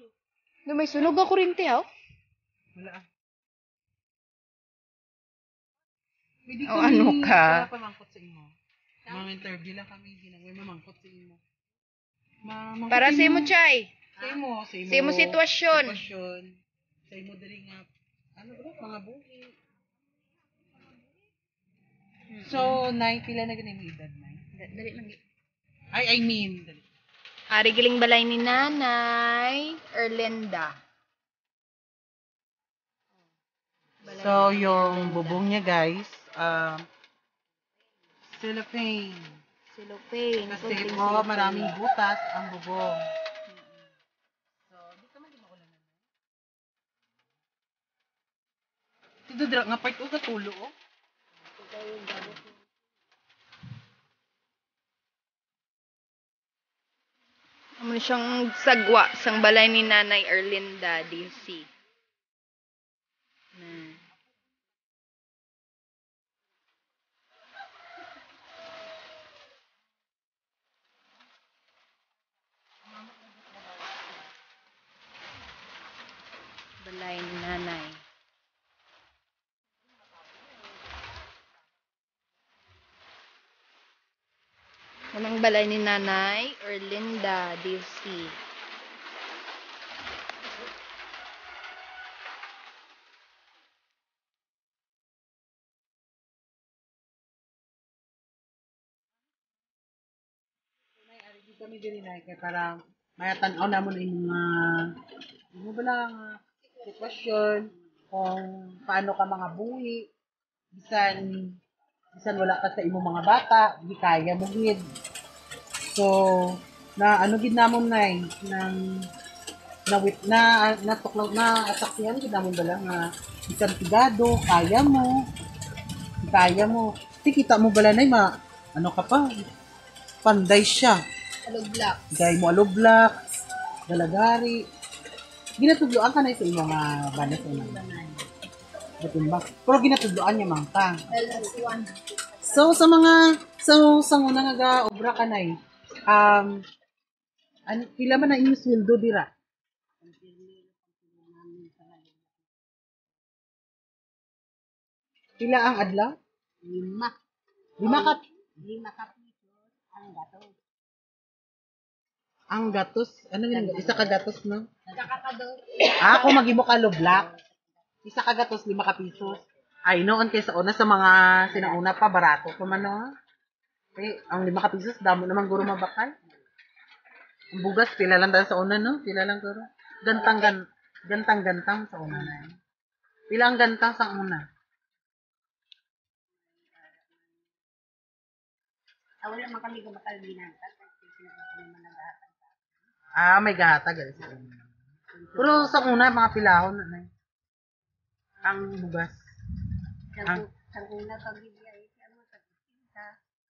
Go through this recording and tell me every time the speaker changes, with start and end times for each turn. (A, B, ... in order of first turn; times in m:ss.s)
0:00.7-0:01.9 A
0:02.8-0:03.0 B
0:06.5-0:08.5 B
0:06.7-0:07.7 A
0:09.1-0:11.4 B
0:12.4-0:13.5 B
0:12.9-0:14.3 A
0:14.2-0:16.6 B
0:14.9-0:16.0 A
0:17.1-0:19.6 B
0:22.3-0:22.8 A
0:22.4-0:24.4 B
0:24.6-0:25.2 A
0:25.9-0:26.8 B
0:27.5-0:30.8 A
0:34.0-0:35.4 A
0:34.1-0:36.9 B
0:38.3-0:39.4 B
0:39.7-0:41.8 A
0:40.5-0:42.9 B
0:44.7-0:46.0 B
0:49.3-0:50.7 B
0:51.6-0:52.5 C
0:57.8-1:01.7 A
1:03.6-1:04.0 A
1:16.8-1:18.0 A
1:25.1-1:28.4 A
1:41.0-1:44.9 B
1:45.6-1:50.0 B
1:50.7-1:51.5 B
1:52.2-1:54.8 B
1:55.9-1:58.8 B
1:59.9-2:05.2 B
2:06.3-2:09.4 B
2:10.2-2:11.0 B
2:11.5-2:12.0 A
2:12.1-2:13.2 B
2:13.9-2:14.6 B
2:15.6-2:17.9 B
2:17.2-2:18.2 C
2:19.0-2:21.0 B
2:21.1-2:21.9 A
2:21.2-2:21.8 C
2:22.5-2:25.5 B
2:26.1-2:26.6 B
2:27.7-2:29.3 B
2:30.0-2:32.5 C
2:35.4-2:36.1 B
2:36.6-2:37.2 C
2:37.8-2:38.2 B
2:37.8-2:40.6 C
2:42.5-2:44.6 B
2:43.5-2:44.2 C
2:44.9-2:45.9 C
2:46.0-2:47.3 B
2:47.0-2:47.7 C
2:48.0-2:53.1 B
2:51.5-2:51.8 C
2:54.0-2:56.1 B
2:57.5-3:02.6 B
3:00.2-3:00.5 C
3:03.3-3:04.4 B
3:06.8-3:07.2 C
3:09.2-3:12.6 C
3:13.2-3:14.6 B
3:15.1-3:15.9 C
3:15.4-3:17.1 B
3:18.4-3:19.3 B
3:20.2-3:23.2 C